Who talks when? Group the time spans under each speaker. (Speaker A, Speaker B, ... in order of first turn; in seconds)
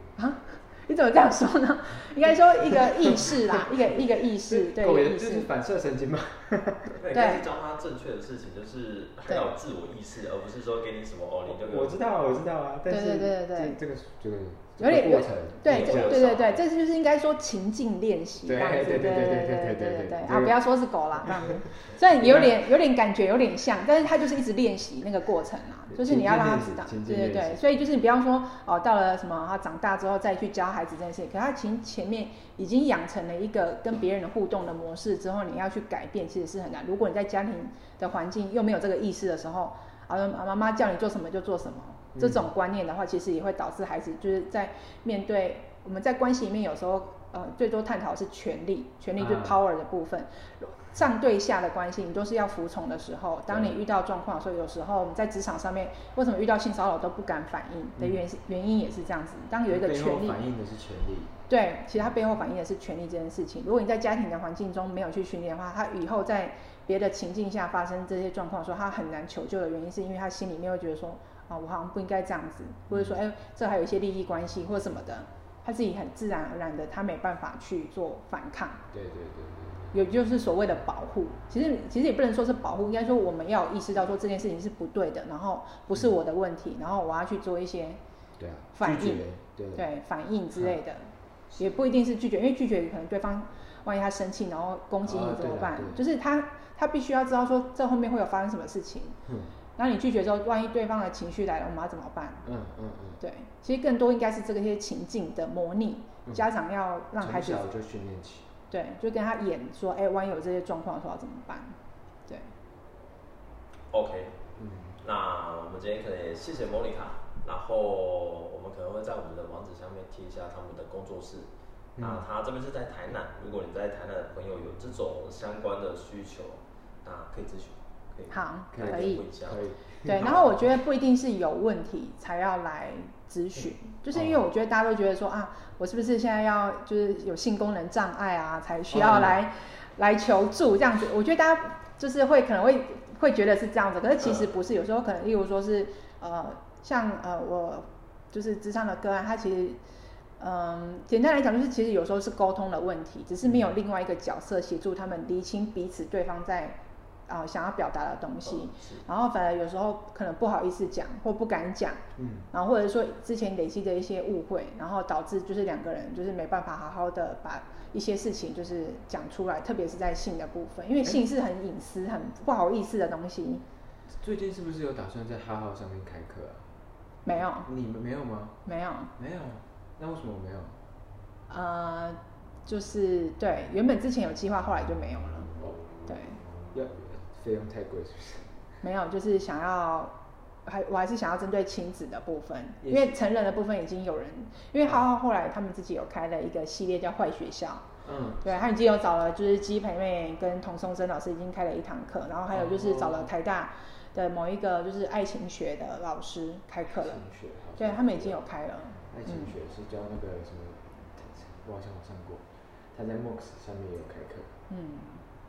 Speaker A: 0.2-5.5, 7.1-7.5, 12.9-13.8, 14.8-60.4, 61.5-78.8, 79.9-88.0, 88.8-99.2, 99.8-102.5, 103.2-107.7, 108.7-111.8, 128.3-129.3, 130.1-149.8, 150.4-173.6, 177.3-177.7, 178.7-179.1, 181.5-185.5, 186.1-186.4, 188.8-197.9, 198.4-207.2, 207.8-209.6, 214.7-215.2
Speaker B: 2.2-7.0, 11.4-16.3, 18.4-20.6, 21.2-21.5, 22.2-22.6, 25.9-27.6, 42.1-42.5, 49.2-49.6, 53.5-53.8, 58.0-58.2, 59.7-61.4, 72.9-73.2, 78.9-79.9, 88.4-89.9, 95.0-96.0, 99.3-99.5, 102.5-103.2, 107.2-108.5, 114.6-115.0, 122.0-122.2, 128.7-130.6, 134.1-134.4, 138.9-139.4, 153.4-153.7, 162.2-162.5, 174.1-176.7, 177.3-178.6, 179.2-180.8, 186.7-188.6, 192.8-193.2, 198.0-198.8, 202.5-203.3, 206.9-208.4, 209.1-214.6
Speaker C: 6.9-12.0, 15.7-16.6, 113.9-114.4, 115.0-129.6, 158.4-159.0